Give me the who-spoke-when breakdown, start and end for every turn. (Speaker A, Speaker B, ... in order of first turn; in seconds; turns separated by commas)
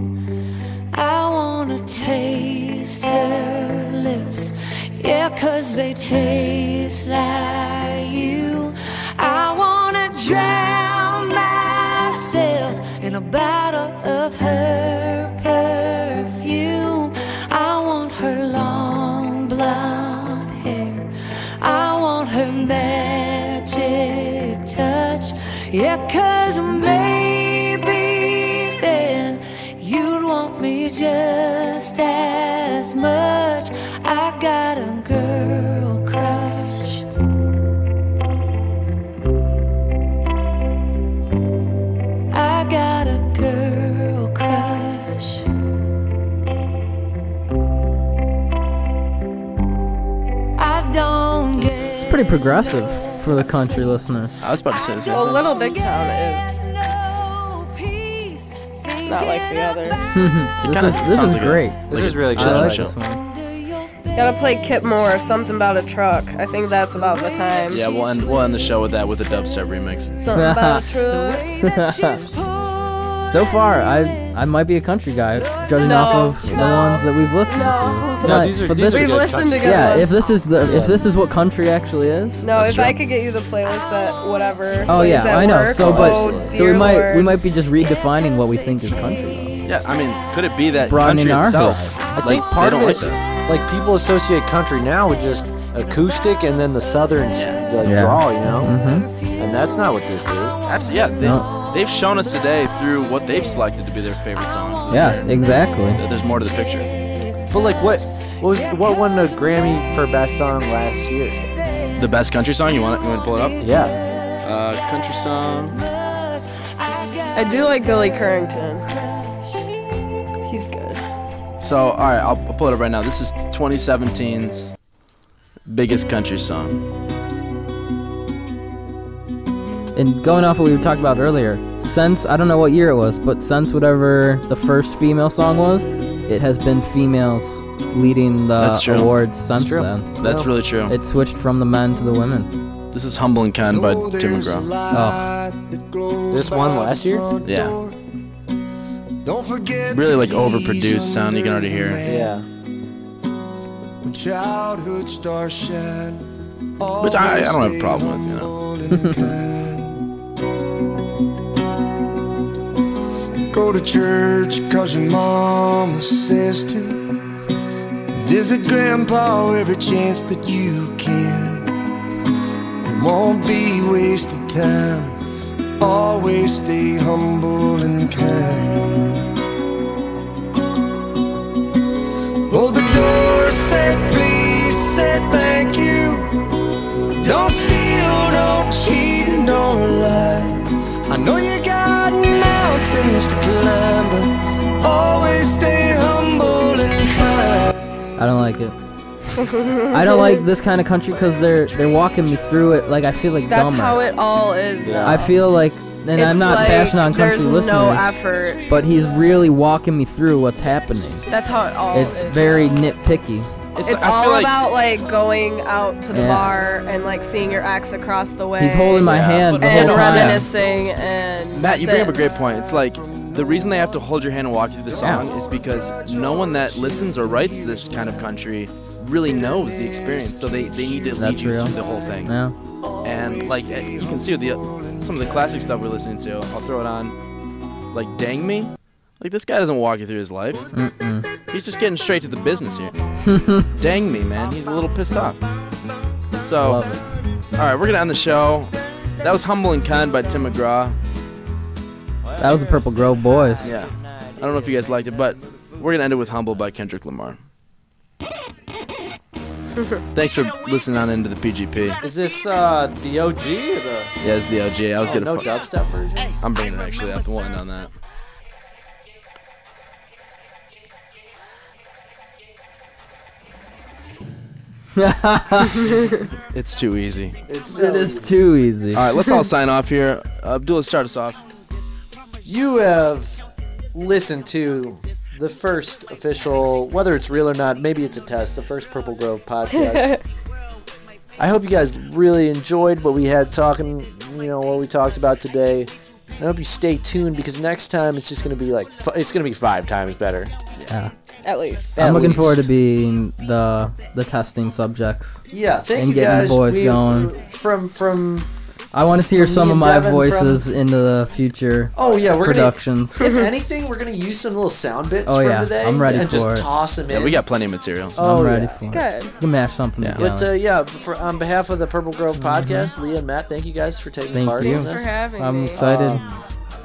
Speaker A: 0.9-37.0, Speaker A: 42.3-45.4, Speaker A: 50.6-54.0, Speaker B: 51.9-54.4, Speaker C: 54.4-55.5, Speaker D: 55.1-56.7, Speaker A: 55.2-60.1, Speaker D: 59.0-60.0, Speaker B: 60.1-63.2, Speaker C: 60.6-63.0, Speaker E: 61.9-62.9, Speaker A: 63.0-63.9, Speaker D: 64.2-67.8, Speaker A: 67.1-68.4, Speaker C: 67.7-70.2, Speaker D: 70.2-71.5, Speaker B: 70.3-70.9, Speaker A: 71.0-74.3, Speaker B: 71.6-72.3, Speaker B: 73.3-82.4, Speaker A: 75.4-76.3, Speaker D: 75.8-80.3, Speaker E: 78.2-80.1, Speaker E: 80.6-81.0, Speaker D: 82.4-87.3, Speaker C: 82.5-83.0, Speaker B: 84.9-89.6, Speaker E: 85.4-86.8, Speaker C: 89.6-93.2, Speaker B: 90.9-92.0, Speaker E: 92.2-98.7, Speaker C: 97.3-97.6, Speaker B: 97.8-99.1, Speaker E: 99.4-100.6, Speaker C: 100.7-105.3, Speaker B: 101.2-101.5, Speaker B: 104.9-106.0, Speaker C: 105.9-106.9, Speaker E: 107.5-111.4, Speaker C: 112.0-113.8, Speaker E: 113.6-114.0, Speaker A: 113.7-114.3, Speaker C: 114.4-115.8, Speaker A: 116.8-117.7, Speaker D: 117.3-118.9, Speaker D: 120.5-121.0, Speaker C: 121.6-124.7, Speaker C: 125.7-126.8, Speaker B: 129.9-140.2, Speaker C: 138.6-139.2, Speaker E: 139.5-140.5, Speaker C: 140.2-140.9, Speaker B: 140.9-142.5, Speaker C: 142.9-144.7, Speaker F: 143.7-148.0, Speaker B: 144.9-145.3, Speaker E: 146.3-147.3, Speaker C: 147.4-147.8, Speaker F: 149.2-152.3, Speaker C: 149.9-152.0, Speaker E: 152.1-152.4, Speaker F: 154.0-156.2, Speaker F: 156.8-160.0, Speaker C: 157.0-158.5, Speaker B: 158.9-159.2, Speaker F: 163.5-167.1, Speaker F: 168.1-171.7, Speaker F: 172.8-175.2, Speaker F: 175.8-179.3, Speaker F: 182.5-186.3, Speaker F: 187.2-198.1, Speaker B: 198.2-198.8, Speaker D: 199.4-200.4, Speaker B: 199.9-204.0, Speaker D: 203.5-205.4, Speaker E: 204.8-205.3, Speaker B: 205.0-208.2, Speaker D: 206.1-208.7, Speaker B: 208.7-211.3, Speaker D: 211.3-212.8, Speaker B: 211.9-213.5, Speaker C: 213.8-214.6, Speaker D: 213.8-222.2, Speaker B: 216.1-216.5, Speaker B: 218.6-220.5, Speaker C: 219.1-220.5, Speaker C: 221.5-232.3, Speaker F: 223.0-223.9, Speaker F: 224.9-228.3, Speaker B: 225.0-225.3, Speaker F: 229.2-232.2, Speaker B: 231.2-232.6, Speaker F: 232.8-235.8, Speaker C: 233.0-237.2, Speaker C: 237.9-240.7, Speaker B: 240.7-241.3, Speaker C: 241.5-242.9, Speaker B: 243.3-243.7, Speaker C: 243.8-245.4, Speaker C: 246.4-246.8, Speaker B: 246.6-247.0, Speaker C: 247.6-251.0, Speaker B: 252.4-253.8, Speaker C: 253.6-257.4, Speaker C: 260.1-262.0, Speaker E: 262.0-264.1, Speaker C: 264.2-265.7, Speaker E: 265.0-266.3, Speaker C: 266.4-267.9, Speaker B: 275.0-275.9, Speaker D: 275.8-276.2, Speaker C: 276.5-277.4, Speaker E: 277.5-278.4, Speaker B: 277.7-279.0, Speaker C: 278.9-281.4, Speaker E: 282.4-283.4, Speaker E: 283.9-290.2, Speaker D: 289.7-290.2, Speaker E: 291.4-300.5, Speaker D: 301.4-302.0, Speaker E: 301.9-302.7, Speaker B: 302.0-305.4, Speaker E: 305.5-308.5, Speaker B: 306.0-307.3, Speaker B: 308.9-313.2, Speaker E: 309.3-310.7, Speaker E: 311.9-317.4, Speaker D: 313.2-313.5, Speaker B: 315.3-316.7, Speaker C: 317.1-318.2, Speaker E: 318.1-318.8, Speaker B: 318.2-320.5, Speaker D: 318.9-319.3, Speaker E: 320.2-325.1, Speaker B: 322.4-322.9, Speaker B: 324.3-326.2, Speaker D: 324.6-325.8, Speaker E: 325.7-326.4